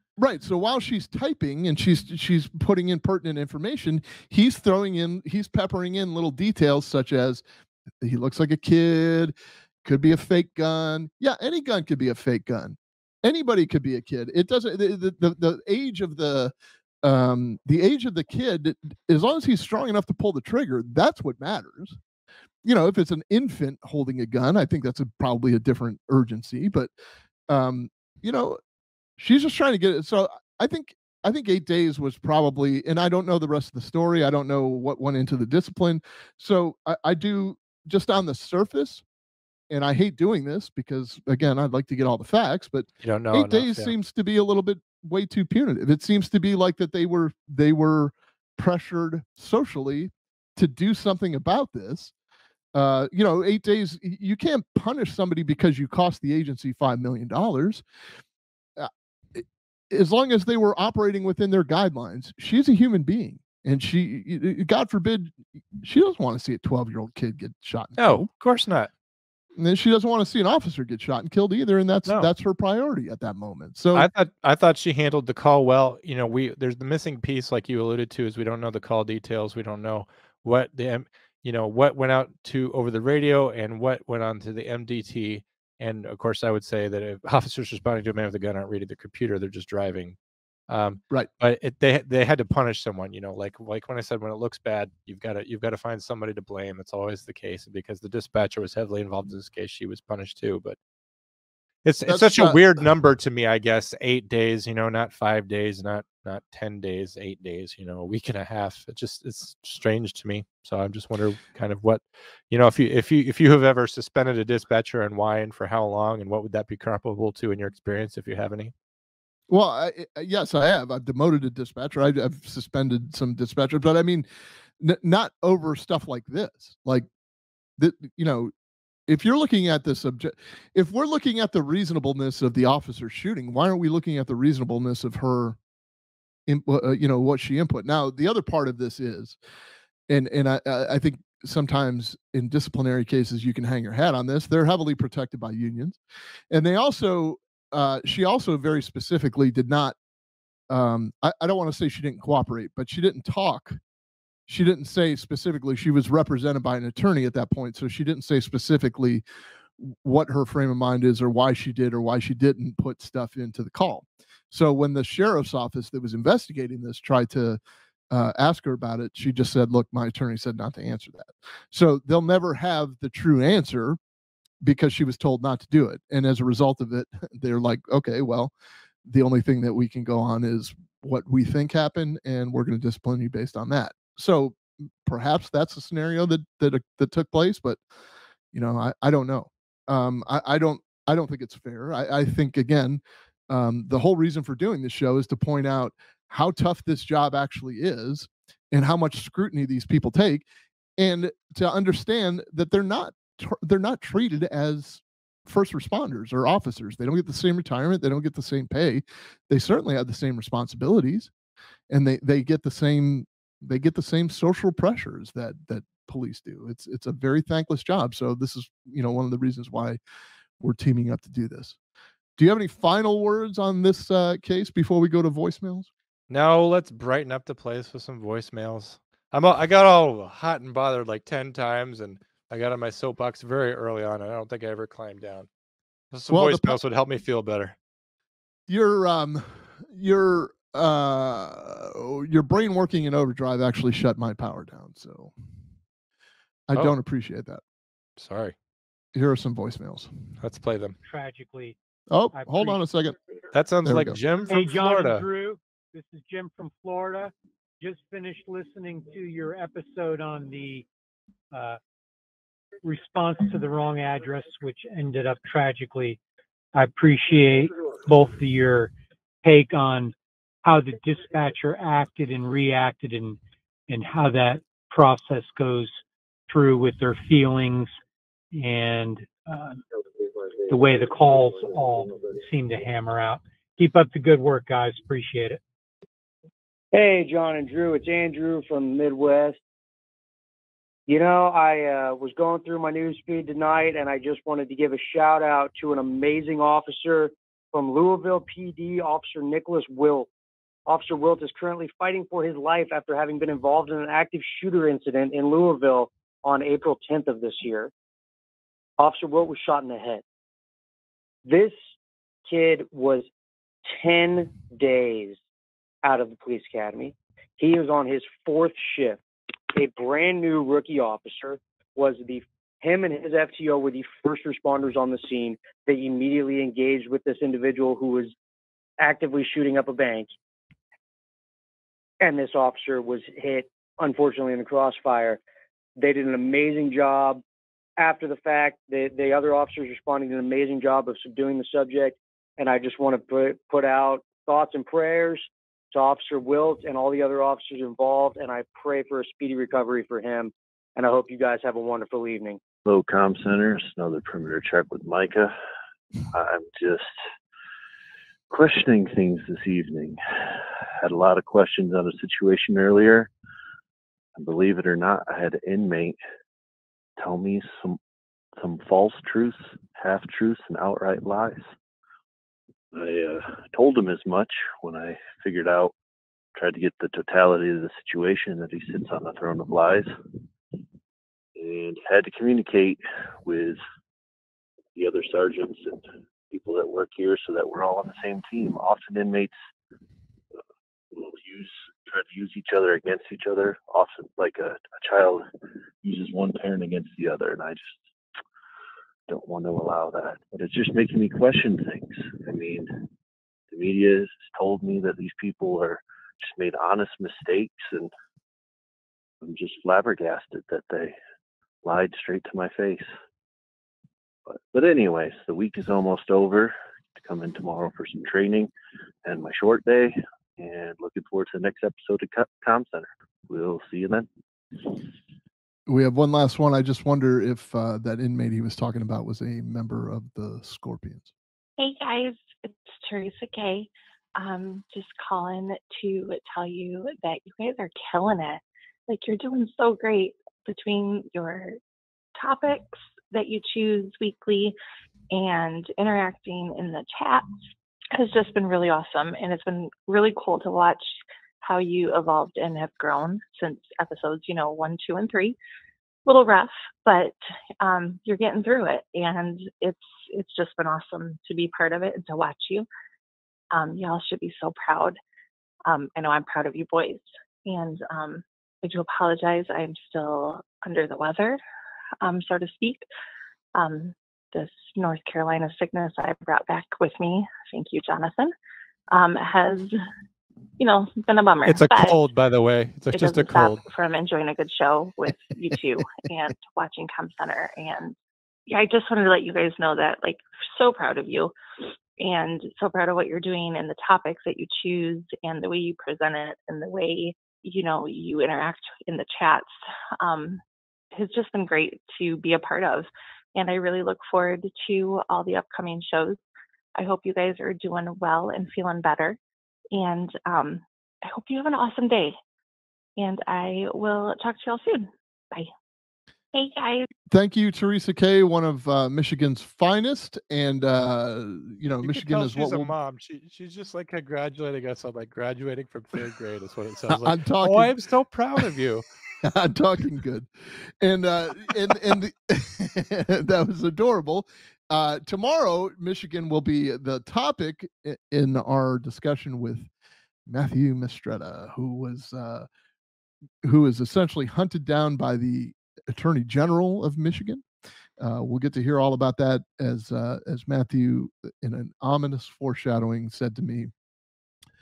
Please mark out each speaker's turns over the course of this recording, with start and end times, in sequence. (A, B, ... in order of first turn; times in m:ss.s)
0:00.2-0:07.4 A
0:08.0-0:22.0 A
0:22.6-0:26.9 A
0:27.5-0:28.6 A
0:29.2-0:39.0 A
0:39.7-0:52.1 A
0:43.0-0:43.9 B
0:52.7-0:57.8 A
0:58.8-1:08.2 A
1:08.0-1:08.9 B
1:09.6-1:14.1 A
1:13.9-1:30.2 B
1:30.7-1:40.8 B
1:41.8-1:58.7 B
1:42.0-1:42.8 A
1:59.5-2:04.3 A
2:04.8-2:07.1 A
2:07.8-2:08.5 A
2:09.1-2:15.6 A
2:16.5-2:19.4 A
2:20.1-2:26.0 A
2:26.5-2:30.0 A
2:30.7-2:33.8 A
2:34.5-2:39.2 A
2:39.8-2:54.0 A
2:54.6-2:58.5 A
2:59.0-3:07.8 A
3:08.5-3:20.4 A
3:21.0-3:31.3 A
3:31.9-3:40.0 A
3:40.6-3:41.8 A
3:42.4-3:45.9 A
3:46.3-3:55.5 B
3:56.1-3:57.8 B
3:56.3-3:56.8 A
3:58.7-4:05.3 A
4:06.7-4:07.6 A
4:08.2-4:08.5 B
4:09.1-4:10.1 A
4:10.4-4:11.0 B
4:11.0-4:11.8 C
4:12.1-4:13.1 A
4:12.3-4:12.8 C
4:13.5-4:15.2 B
4:13.8-4:14.2 A
4:14.5-4:20.9 C
4:21.5-4:21.8 C
4:22.8-4:26.2 C
4:26.7-4:28.9 C
4:29.4-4:35.9 C
4:36.5-4:37.9 C
4:38.5-4:39.8 C
4:40.7-4:45.6 C
4:46.9-4:49.6 D
4:51.1-5:00.3 D
5:00.8-5:07.9 D
5:09.0-5:10.2 D
5:11.4-5:11.8 D
5:12.4-5:13.3 D
5:13.8-5:15.4 D
5:16.0-5:28.3 D
5:29.0-5:30.3 D
5:32.2-5:35.4 D
5:36.0-5:37.4 D
5:38.0-5:52.6 D
5:52.8-5:55.5 E
5:56.3-5:57.1 E
5:58.5-6:03.3 E
6:04.4-6:06.2 E
6:07.2-6:08.0 E
6:08.6-6:11.7 E
6:12.9-6:15.9 E
6:16.5-6:20.1 E
6:21.5-6:23.8 E
6:24.9-6:29.5 E
6:31.1-6:35.4 E
6:36.0-6:38.0 E
6:39.3-6:43.1 E
6:43.7-6:48.1 E
6:49.4-6:51.2 E
6:51.8-6:53.1 E
6:54.5-6:58.7 E
6:59.2-7:04.3 E
7:05.9-7:11.3 A
7:11.8-7:21.8 F
7:22.4-7:24.8 F
7:25.3-7:27.6 F
7:28.1-7:35.6 F
7:36.2-7:42.9 F
7:43.7-7:45.2 F
7:45.8-7:51.6 F
7:52.2-7:53.0 F
7:53.7-7:58.5 F
7:59.1-7:59.9 F
8:00.8-8:02.2 F
8:01.6-8:03.8 B
8:03.1-8:08.2 F
8:08.7-8:11.5 F
8:12.2-8:20.6 F
8:21.1-8:26.4 F
8:27.0-8:29.4 F
8:29.9-8:32.4 F
8:33.2-8:35.7 F
8:36.5-8:37.1 F
8:37.3-8:42.9 A
8:42.0-8:49.0 B
8:47.1-8:47.9 A
8:49.4-8:50.5 A
8:51.0-8:59.9 A
9:00.4-9:02.7 A
9:03.6-9:07.6 A
9:08.2-9:13.9 A